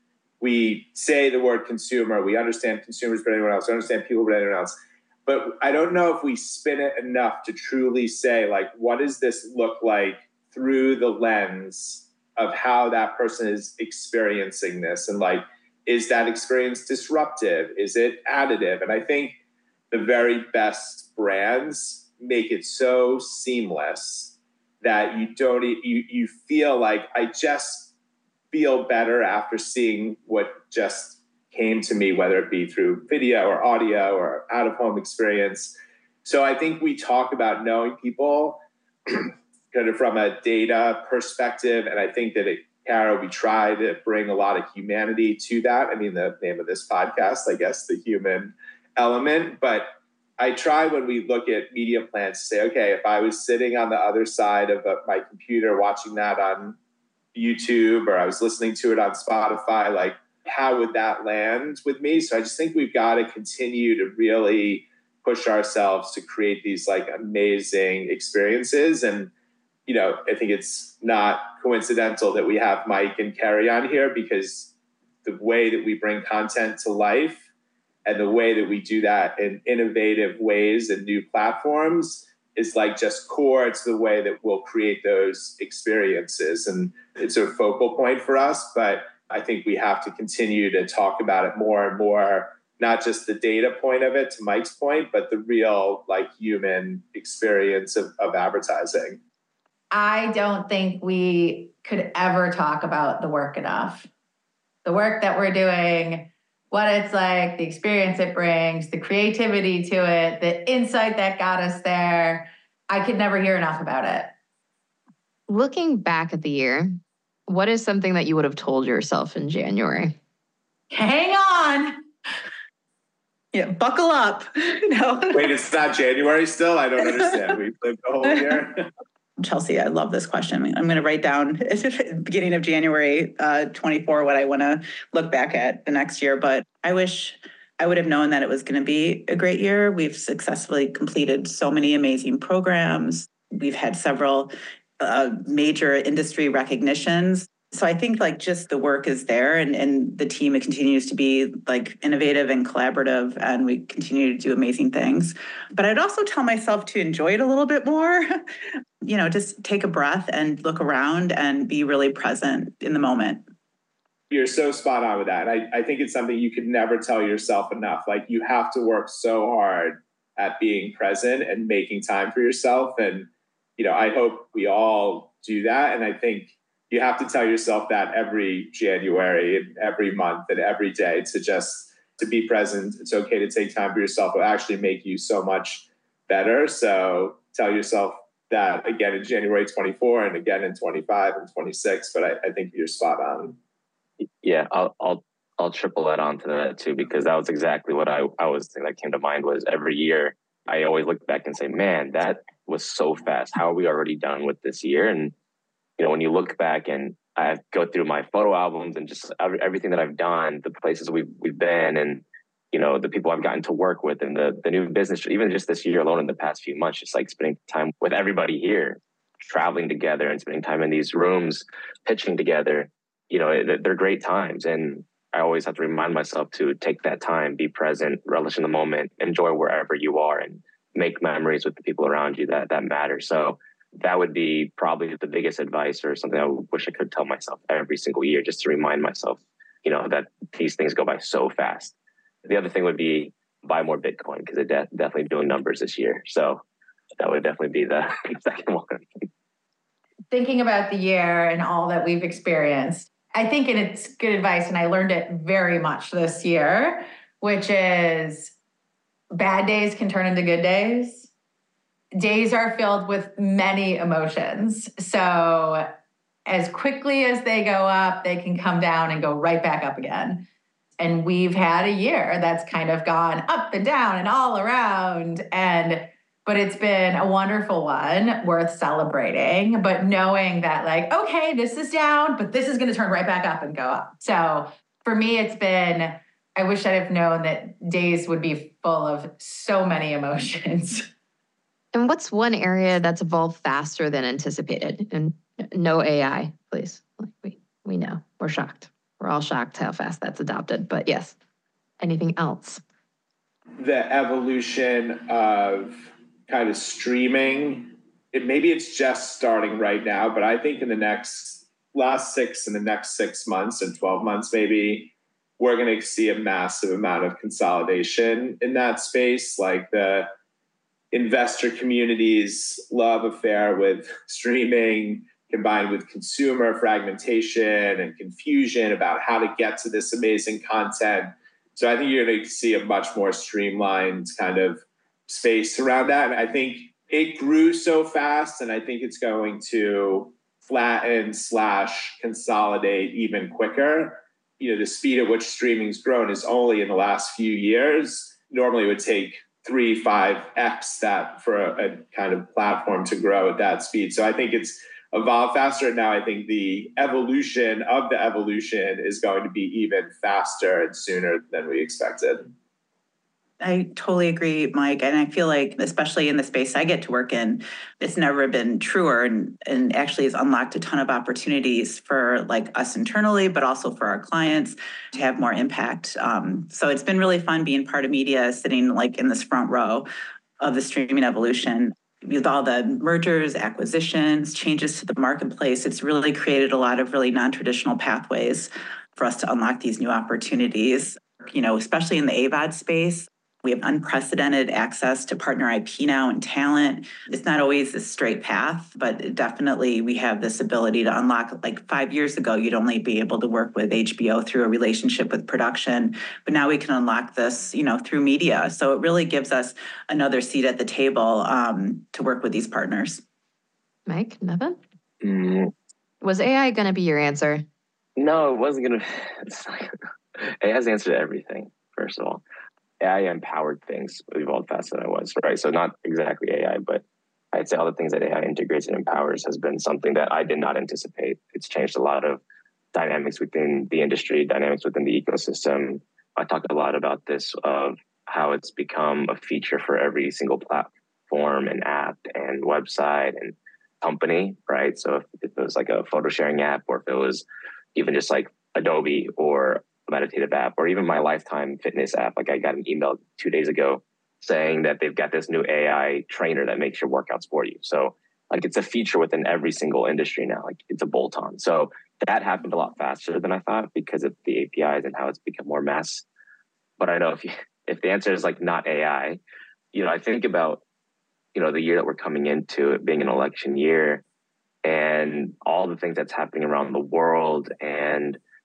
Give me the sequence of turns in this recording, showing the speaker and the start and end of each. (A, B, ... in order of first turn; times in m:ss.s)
0:00.4-0:19.4 A
0:19.9-0:27.9 A
0:28.5-0:49.9 A
0:50.4-0:56.8 A
0:57.3-1:09.3 A
1:09.9-1:14.7 A
1:15.2-1:17.5 A
1:18.0-1:39.2 A
1:39.9-1:44.1 B
1:44.8-1:54.3 B
1:55.5-1:57.0 C
1:57.5-2:00.2 C
2:00.9-2:02.0 B
2:03.5-2:05.5 D
2:05.3-2:08.9 A
2:07.0-2:07.4 D
2:09.4-2:38.4 D
2:39.0-2:43.4 D
2:44.3-3:13.6 A
3:14.4-3:25.3 E
3:26.0-4:01.9 E
4:02.5-4:06.6 E
4:07.2-4:09.2 E
4:10.3-4:18.5 B
4:19.3-4:21.3 B
4:22.2-4:25.9 B
4:26.5-4:30.5 B
4:31.0-4:51.1 B
4:51.9-5:01.4 C
5:02.0-5:02.8 C
5:03.8-5:20.3 A
5:21.1-6:02.5 A
6:03.6-6:20.1 D
6:20.6-6:53.2 D
6:54.1-6:54.8 C
6:55.2-6:55.7 E
6:56.2-6:57.6 C
6:58.2-7:02.4 E
7:03.0-7:12.4 E
7:12.9-7:27.4 E
7:28.0-7:46.2 E
7:47.0-7:49.4 E
7:49.9-7:50.8 E
7:51.6-7:54.2 E
7:54.8-7:58.4 E